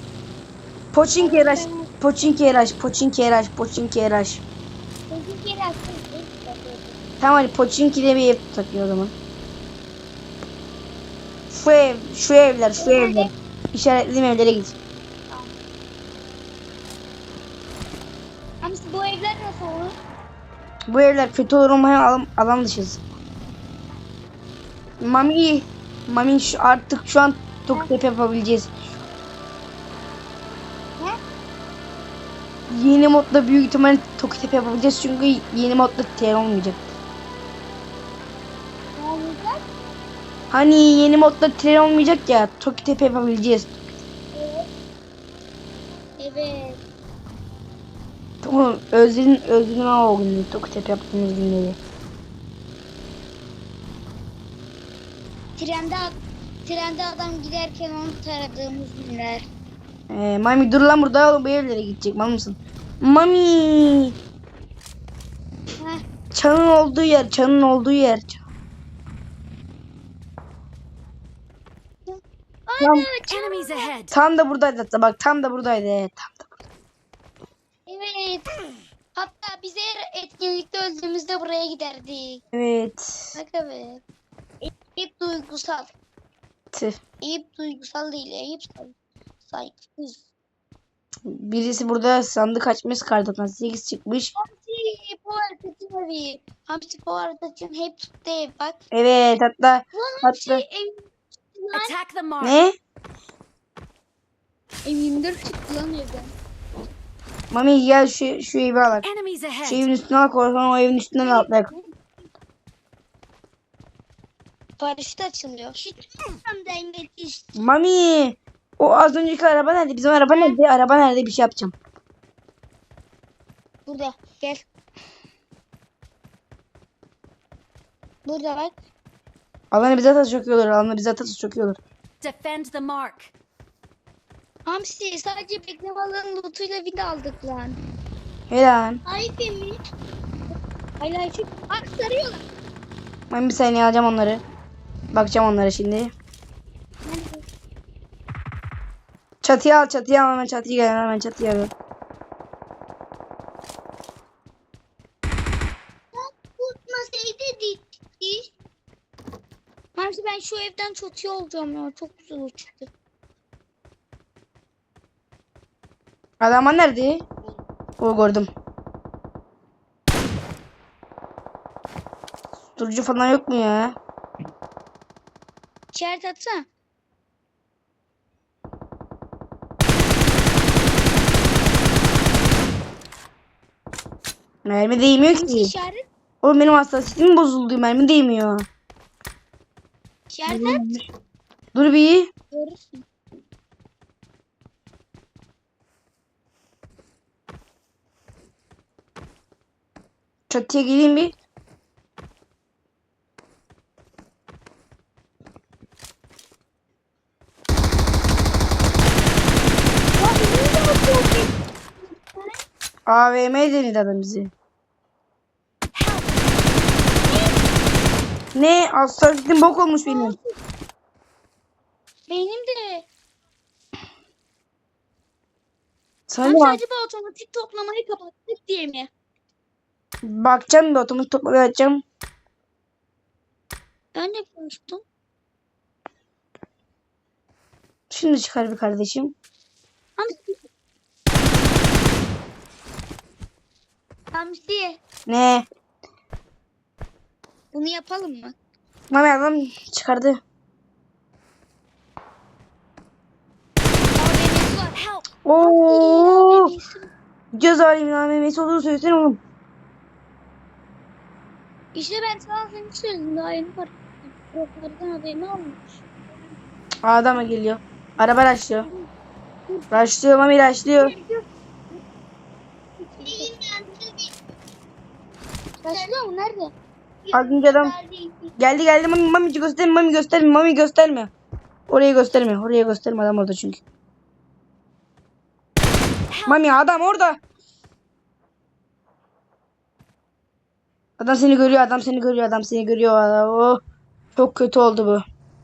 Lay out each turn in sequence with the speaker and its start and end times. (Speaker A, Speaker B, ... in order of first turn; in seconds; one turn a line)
Speaker A: 0.9-4.4
Speaker B: 1.2-2.6
Speaker B: 5.1-7.0
Speaker A: 7.2-9.1
Speaker A: 11.5-14.8
Speaker B: 12.8-13.3
Speaker B: 15.3-15.5
Speaker B: 18.6-19.9
Speaker A: 20.9-23.0
Speaker A: 25.0-28.7
Speaker A: 32.7-36.8
Speaker B: 39.0-39.6
Speaker A: 40.5-43.8
Speaker B: 44.3-44.7
Speaker B: 46.2-46.8
Speaker A: 48.4-51.8
Speaker B: 55.6-59.5
Speaker A: 60.1-64.1
Speaker A: 66.3-68.4
Speaker B: 72.1-73.9
Speaker A: 72.8-73.1
Speaker C: 73.3-74.1
Speaker A: 74.1-76.5
Speaker B: 77.9-78.5
Speaker B: 79.2-82.4
Speaker A: 82.5-83.3
Speaker B: 83.3-84.0
Speaker B: 84.9-85.9
Speaker A: 86.7-87.0
Speaker B: 87.2-89.0
Speaker B: 89.5-90.2
Speaker A: 91.3-94.3
Speaker B: 94.4-98.8
Speaker A: 98.9-100.6
Speaker B: 99.9-102.0
Speaker C: 101.7-102.6
Speaker A: 102.4-102.7
Speaker B: 104.8-106.3
Speaker A: 107.5-109.0
Speaker C: 109.0-109.8
Speaker A: 109.6-111.7
Speaker B: 111.2-111.9
Speaker B: 114.8-117.6
Speaker A: 117.6-121.7
Speaker B: 120.2-120.6
Speaker B: 123.9-124.7
Speaker B: 128.2-128.7
Speaker A: 129.7-131.8
Speaker C: 132.2-133.3
Speaker B: 134.7-137.8
Speaker A: 138.5-139.0
Speaker B: 139.1-139.8
Speaker B: 141.0-142.4
Speaker A: 143.3-144.4
Speaker A: 145.1-146.1
Speaker B: 147.1-147.4
Speaker A: 149.4-151.7
Speaker B: 156.1-158.5
Speaker B: 160.0-162.9
Speaker A: 166.4-167.2
Speaker A: 168.0-168.5
Speaker A: 172.8-174.0
Speaker B: 175.9-176.7
Speaker A: 184.7-185.7
Speaker B: 185.3-186.1
Speaker A: 186.4-188.7
Speaker B: 190.3-191.0
Speaker A: 190.5-191.0
Speaker A: 191.8-192.3
Speaker B: 192.5-193.1
Speaker A: 200.5-201.3
Speaker B: 210.2-212.6
Speaker A: 213.1-214.5
Speaker C: 215.9-216.4
Speaker B: 217.3-217.6
Speaker A: 218.6-220.3
Speaker B: 220.1-220.6
Speaker B: 222.3-223.1
Speaker A: 226.3-226.8
Speaker B: 226.4-229.1
Speaker A: 230.3-232.0
Speaker B: 234.2-235.0
Speaker A: 238.1-239.3
Speaker B: 240.2-240.6
Speaker B: 244.3-245.0
Speaker A: 245.3-245.7
Speaker B: 247.7-248.6
Speaker A: 249.1-250.4
Speaker B: 254.2-255.0
Speaker C: 254.9-255.4
Speaker A: 255.4-256.7
Speaker B: 255.6-257.1
Speaker A: 257.5-259.4
Speaker B: 261.9-266.0
Speaker A: 267.1-268.9
Speaker B: 269.7-270.0
Speaker A: 269.9-271.1
Speaker B: 270.9-271.4
Speaker B: 273.0-274.3
Speaker B: 275.8-276.7
Speaker B: 277.2-278.6
Speaker A: 277.3-277.9
Speaker A: 278.6-281.3
Speaker A: 281.9-283.8
Speaker C: 286.3-286.6
Speaker A: 286.4-287.4
Speaker A: 291.2-293.8
Speaker A: 294.4-295.2